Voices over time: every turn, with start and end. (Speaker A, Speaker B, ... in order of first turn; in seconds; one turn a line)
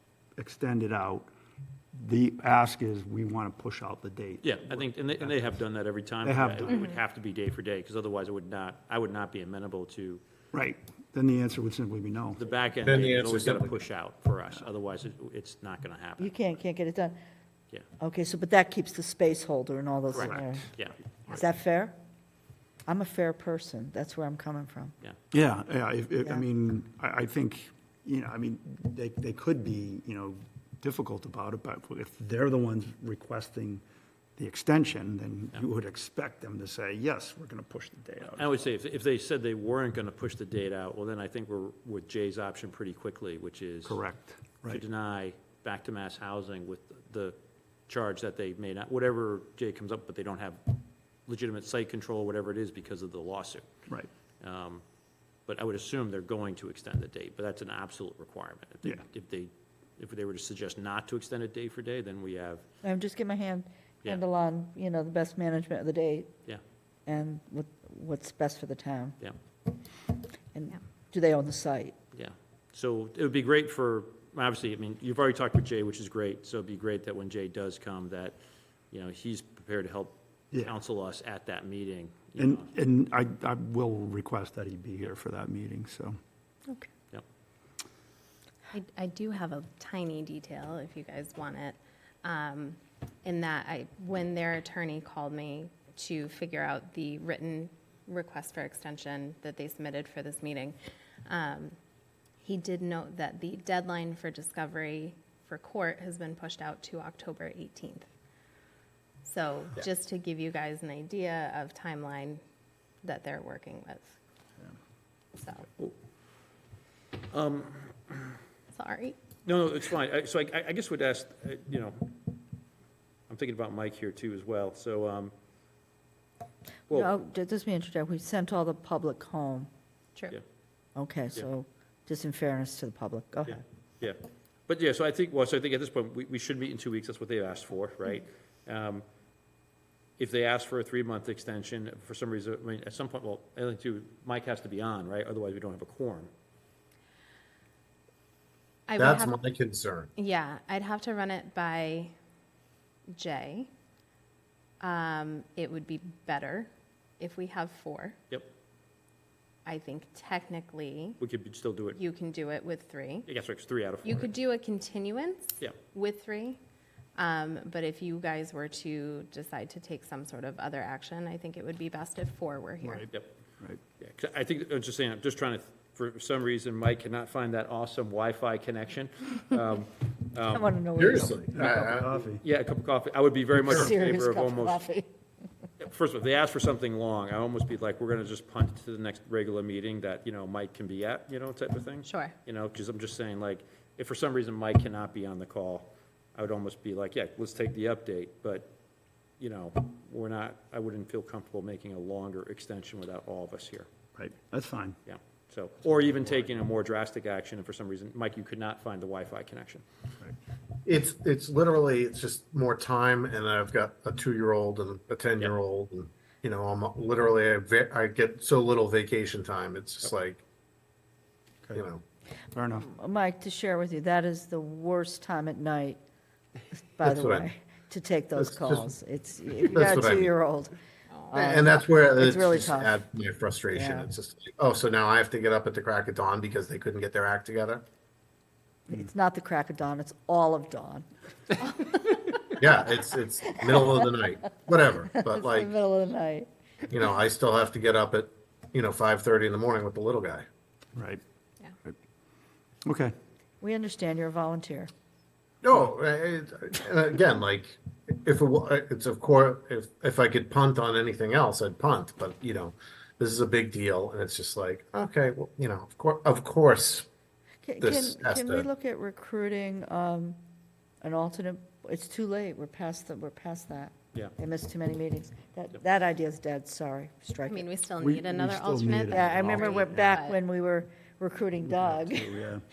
Speaker A: 0.3-1.3
Speaker A: 1.9-5.4
Speaker B: 4.4-10.2
Speaker A: 6.2-7.0
Speaker A: 10.5-12.4
Speaker B: 12.4-16.3
Speaker C: 12.8-13.8
Speaker D: 16.2-17.1
Speaker D: 18.0-20.7
Speaker B: 20.1-21.0
Speaker D: 21.3-21.9
Speaker D: 22.9-24.9
Speaker A: 25.3-33.8
Speaker A: 34.4-38.7
Speaker B: 38.3-44.0
Speaker A: 43.8-44.8
Speaker B: 44.7-47.4
Speaker B: 47.9-53.6
Speaker B: 54.4-54.8
Speaker B: 55.5-62.6
Speaker D: 62.8-66.3
Speaker D: 67.1-69.2
Speaker D: 70.5-71.9
Speaker B: 72.1-78.4
Speaker B: 78.9-82.7
Speaker A: 82.3-86.2
Speaker E: 88.7-101.8
Speaker E: 102.4-108.1
Speaker E: 109.2-112.4
Speaker E: 113.0-114.2
Speaker E: 115.3-115.7
Speaker B: 117.3-118.4
Speaker E: 118.7-119.2
Speaker B: 119.4-122.4
Speaker B: 123.3-125.3
Speaker D: 126.9-129.7
Speaker D: 130.9-133.6
Speaker B: 133.5-139.0
Speaker B: 140.2-146.3
Speaker E: 148.9-149.4
Speaker C: 149.0-150.1
Speaker E: 150.2-152.1
Speaker E: 153.1-153.7
Speaker E: 154.8-158.2
Speaker E: 159.7-161.2
Speaker B: 161.2-162.0
Speaker E: 161.9-163.3
Speaker B: 163.2-164.3
Speaker E: 164.0-166.6
Speaker E: 167.1-173.0
Speaker A: 172.8-173.8
Speaker B: 174.0-180.7
Speaker D: 180.5-181.4
Speaker C: 181.0-182.2
Speaker A: 181.5-182.4
Speaker B: 182.4-184.8
Speaker D: 183.6-185.1
Speaker B: 185.8-198.7
Speaker E: 192.0-192.3
Speaker B: 199.4-203.9
Speaker A: 204.1-205.0
Speaker B: 205.1-209.8
Speaker C: 210.8-220.4
Speaker C: 221.8-222.0
Speaker A: 222.5-222.9
Speaker D: 222.8-226.0
Speaker D: 226.9-230.7
Speaker C: 227.0-227.4
Speaker C: 228.4-228.9
Speaker C: 229.7-230.3
Speaker E: 231.1-231.4
Speaker D: 231.3-233.0
Speaker C: 231.3-237.8
Speaker D: 233.7-234.1
Speaker D: 238.9-241.1
Speaker C: 242.6-245.7
Speaker D: 243.5-244.1
Speaker D: 245.1-246.5
Speaker C: 246.9-250.4
Speaker A: 250.9-251.2
Speaker A: 252.8-253.1
Speaker D: 253.6-254.9
Speaker C: 255.6-267.1
Speaker D: 267.6-270.4
Speaker C: 267.8-268.7
Speaker D: 271.0-277.7
Speaker E: 277.5-280.4
Speaker A: 278.0-280.2
Speaker D: 279.1-282.4
Speaker A: 281.7-282.6